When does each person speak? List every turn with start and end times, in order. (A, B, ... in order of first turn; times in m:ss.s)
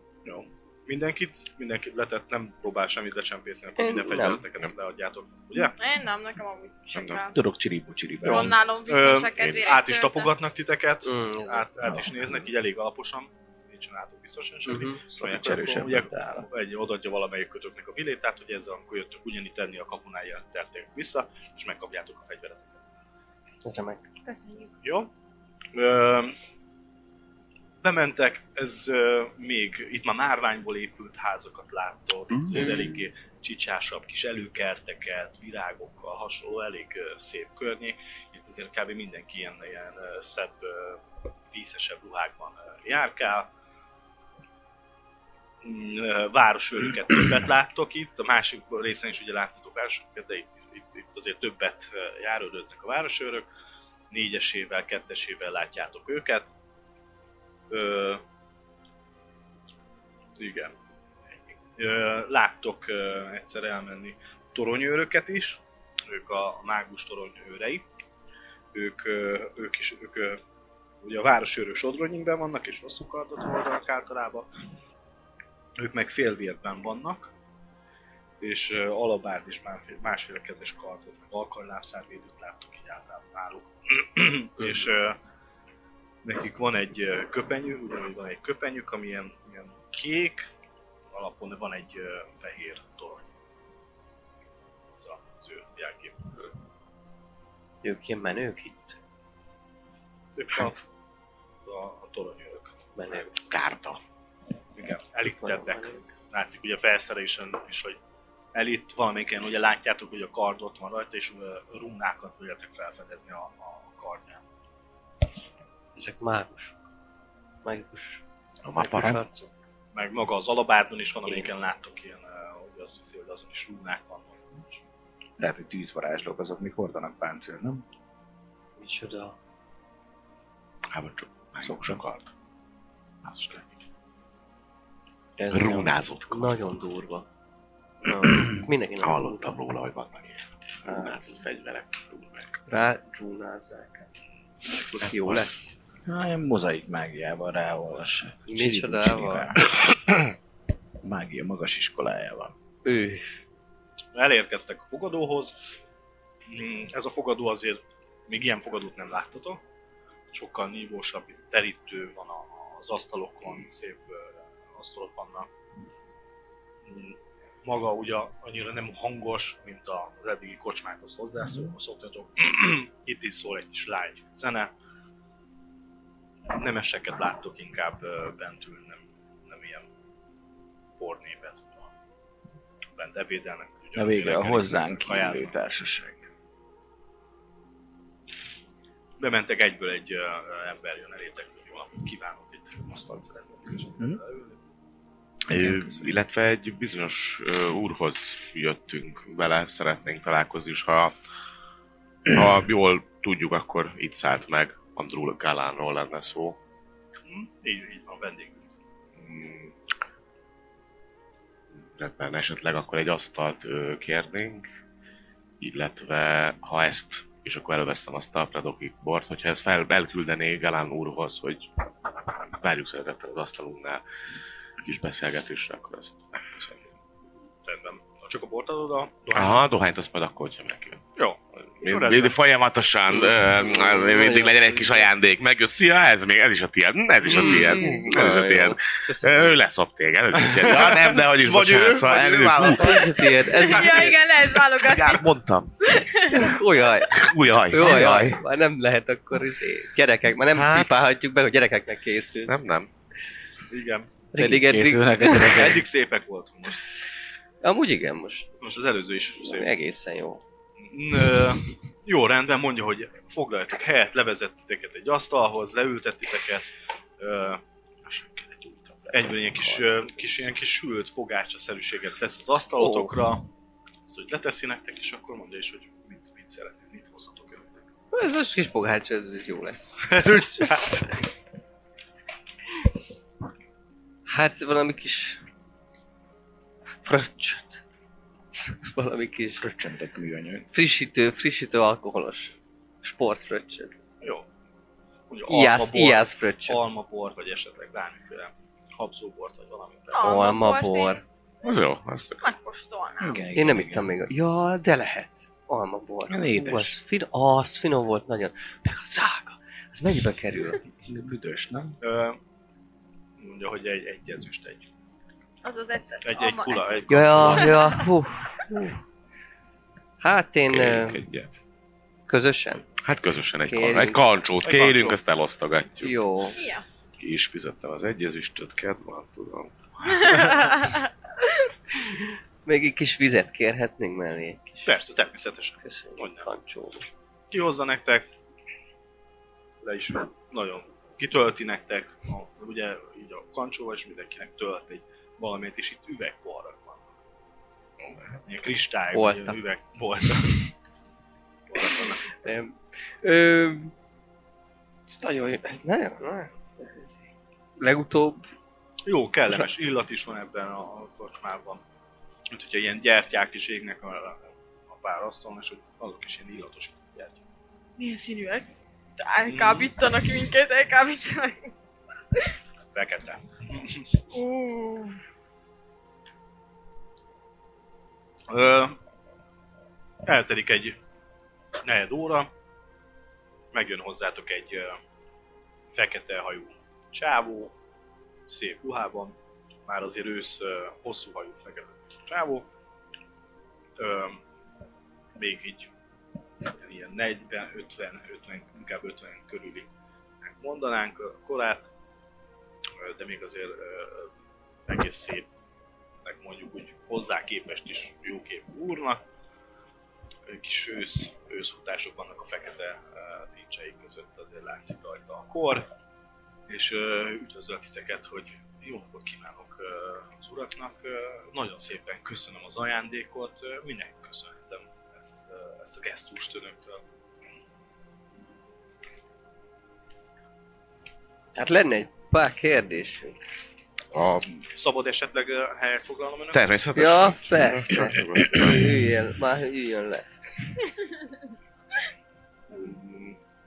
0:00.2-0:05.8 A
0:03.8-0:04.4 B
0:05.8-0:07.4 C
0:06.9-0:07.2 D
0:07.3-0:08.6 E
0:08.2-0:10.3 C
0:08.2-0:22.8 A
0:11.0-0:12.1 B
0:14.7-0:15.0 B
0:15.1-0:16.5 E
0:23.6-0:24.1 B
0:24.2-0:24.8 C
0:24.8-0:25.1 A
0:25.7-0:26.4 A
0:27.8-0:43.5 A
0:32.5-0:32.8 D
0:32.6-0:32.8 B
0:45.6-0:53.5 A
0:54.1-0:56.5 A
0:57.7-0:58.2 A
1:00.4-1:00.7 A
1:01.8-1:07.8 A
1:08.7-1:10.4 A
1:11.0-1:14.5 A
1:15.8-1:17.3 A
1:18.4-1:25.2 A
1:26.2-1:30.5 A
1:31.1-1:33.3 A
1:35.0-1:36.2 A
1:37.8-1:39.0 B
1:40.4-1:40.8 A
1:41.6-1:42.8 A
1:43.0-1:43.3 B
1:43.5-1:44.0 D
1:44.8-1:48.0 A
1:45.3-1:46.1 B
1:48.5-1:54.4 A
1:56.0-1:56.8 B
1:57.6-1:58.2 B
1:58.6-1:59.2 D
1:58.8-1:59.5 B
1:59.9-2:04.8 A
2:05.4-2:07.8 E
2:08.8-2:09.4 B
2:10.9-2:12.3 D
2:11.6-2:12.1 E
2:13.4-2:13.6 D
2:15.4-2:17.3 B
2:15.5-2:16.7 D
2:18.0-2:19.6 B
2:18.3-2:22.6 D
2:20.8-2:21.2 B
2:22.7-2:24.1 B
2:24.7-2:25.7 B
2:25.0-2:25.5 D
2:26.1-2:29.6 E
2:28.5-2:29.5 B
2:31.0-2:32.5 E
2:32.8-2:33.2 B
2:34.1-2:35.6 A
2:36.5-2:39.6 A
2:40.3-2:45.5 A
2:46.9-2:54.7 A
2:56.5-2:59.9 A
3:01.0-3:01.9 A
3:03.0-3:05.5 A
3:04.0-3:06.3 E
3:09.2-3:14.6 A
3:15.5-3:21.2 D
3:15.5-3:16.2 E
3:22.3-3:26.6 D
3:27.3-3:28.6 A
3:29.2-3:29.7 D
3:31.8-3:34.7 D
3:35.6-3:41.7 D
3:42.5-3:44.0 D
3:44.8-3:46.4 D
3:46.6-3:46.8 A
3:47.6-3:49.6 A
3:49.3-3:51.0 D
3:51.2-3:52.4 A
3:51.8-4:03.1 D
3:53.6-3:55.1 B
3:57.3-3:59.6 B
4:00.4-4:03.7 A
4:02.6-4:04.2 B
4:03.6-4:05.2 C
4:04.8-4:05.7 D
4:05.8-4:06.6 C
4:06.3-4:12.5 B
4:07.1-4:08.4 D
4:10.5-4:11.0 D
4:12.5-4:12.9 D
4:13.7-4:14.1 A
4:14.3-4:15.6 B
4:14.4-4:15.8 E
4:15.4-4:16.9 A
4:17.6-4:18.6 B
4:18.6-4:19.7 A
4:19.4-4:20.4 B
4:20.8-4:26.7 A
4:27.2-4:27.6 A
4:29.1-4:33.5 A
4:29.5-4:30.3 B
4:32.8-4:33.2 B
4:34.1-4:37.8 A
4:38.1-4:40.0 B
4:40.0-4:41.1 A
4:44.3-4:45.4 B
4:47.0-4:47.8 B
4:48.7-4:49.7 B
4:49.6-4:50.7 E
4:50.7-4:54.0 B
4:54.2-4:54.5 A
4:55.3-5:00.4 A
4:55.5-4:56.8 B
5:00.1-5:01.2 C
5:00.2-5:01.2 B
5:01.6-5:02.4 D
5:02.4-5:03.5 C
5:03.2-5:04.1 E
5:03.6-5:10.8 B
5:06.3-5:07.0 E
5:11.0-5:12.0 E
5:12.0-5:12.4 A
5:13.4-5:14.9 A
5:15.6-5:18.0 C
5:16.2-5:17.8 A
5:17.1-5:19.0 B
5:20.2-5:21.2 B
5:20.7-5:21.5 D
5:22.3-5:22.9 B
5:23.0-5:26.2 D
5:23.7-5:24.2 B
5:24.6-5:25.2 A
5:26.0-5:26.6 B
5:26.6-5:26.8 C
5:27.2-5:30.4 D
5:30.0-5:30.7 A
5:30.3-5:31.1 C
5:32.6-5:34.9 B
5:34.8-5:36.5 A
5:35.8-5:37.1 B
5:37.5-5:38.3 A
5:39.8-5:47.1 A
5:48.5-5:50.7 A
5:49.1-5:49.6 B
5:51.7-5:52.2 A
5:52.3-5:53.9 B
5:55.1-5:57.2 B
5:57.8-5:58.5 B
5:59.0-6:01.8 A
6:02.5-6:07.4 A
6:08.0-6:11.7 C
6:09.4-6:09.9 A
6:12.9-6:14.1 A
6:14.3-6:15.2 C
6:18.5-6:19.0 A
6:20.2-6:21.0 A
6:21.8-6:22.5 A
6:23.7-6:25.0 A
6:25.9-6:27.8 A
6:28.5-6:29.4 A
6:29.9-6:32.7 A
6:34.0-6:34.4 A
6:35.4-6:35.9 A
6:36.6-6:39.9 A
6:40.4-6:41.9 A
6:43.0-6:44.3 A
6:44.9-6:45.5 A
6:46.2-6:49.2 A
6:50.5-6:55.9 A
6:56.7-7:07.0 A
7:11.6-7:13.4 B
7:14.1-7:14.6 D
7:14.8-7:16.9 A
7:16.5-7:18.9 D
7:17.0-7:20.3 B
7:22.7-7:23.4 D